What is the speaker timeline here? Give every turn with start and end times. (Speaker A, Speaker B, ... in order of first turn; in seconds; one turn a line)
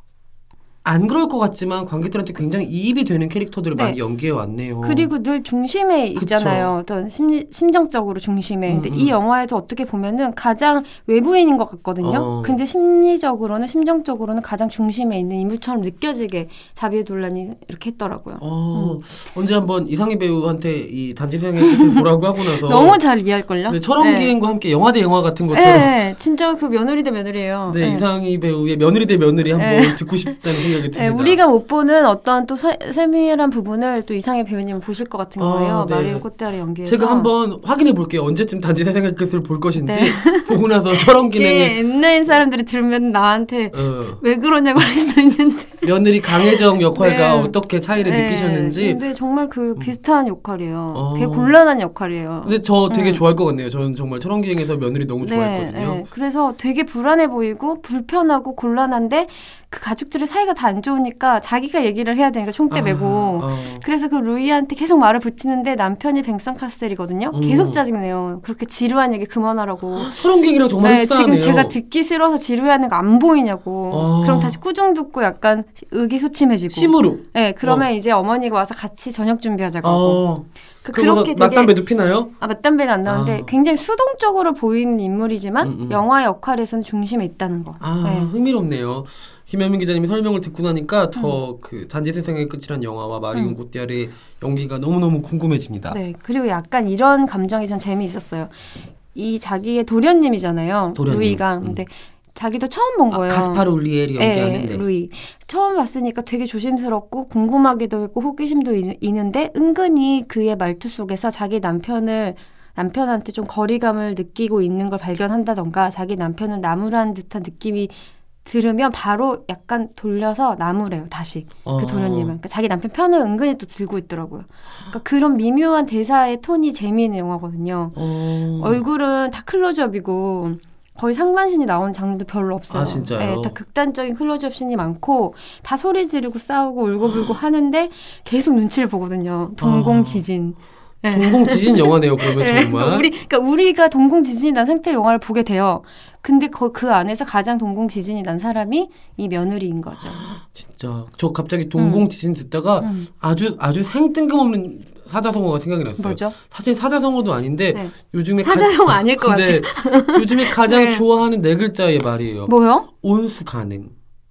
Speaker A: 0.8-5.1
Speaker B: 4.8-19.0
Speaker A: 6.2-6.7
Speaker A: 8.7-9.1
Speaker A: 12.0-12.6
Speaker A: 18.4-23.0
Speaker B: 21.6-24.4
Speaker A: 23.7-25.9
Speaker B: 25.5-28.1
Speaker A: 27.7-31.4
Speaker B: 29.6-37.3
Speaker A: 35.4-36.2
Speaker A: 36.8-41.8
Speaker B: 39.8-53.2
Speaker A: 43.7-44.2
Speaker A: 45.8-49.0
Speaker A: 50.9-51.5
Speaker A: 52.4-56.0
Speaker B: 55.2-70.2
Speaker A: 62.7-63.8
Speaker A: 67.3-67.8
Speaker A: 70.0-71.8
Speaker B: 70.8-80.2
Speaker A: 73.9-74.6
Speaker A: 76.7-77.9
Speaker A: 79.8-82.3
Speaker B: 80.8-81.8
Speaker B: 82.4-88.3
Speaker A: 83.0-83.5
Speaker A: 85.6-86.0
Speaker A: 87.8-96.0
Speaker B: 95.9-98.6
Speaker B: 99.1-103.7
Speaker A: 101.0-101.8
Speaker A: 103.1-104.8
Speaker B: 104.2-128.0
Speaker A: 121.7-122.3
Speaker A: 128.0-128.8
Speaker B: 128.6-150.4
Speaker A: 132.7-133.6
Speaker A: 139.6-140.2
Speaker A: 141.1-143.1
Speaker A: 150.4-163.9
Speaker B: 151.8-152.1
Speaker B: 152.8-153.1
Speaker B: 156.0-156.4
Speaker B: 157.7-161.0
Speaker B: 162.5-162.9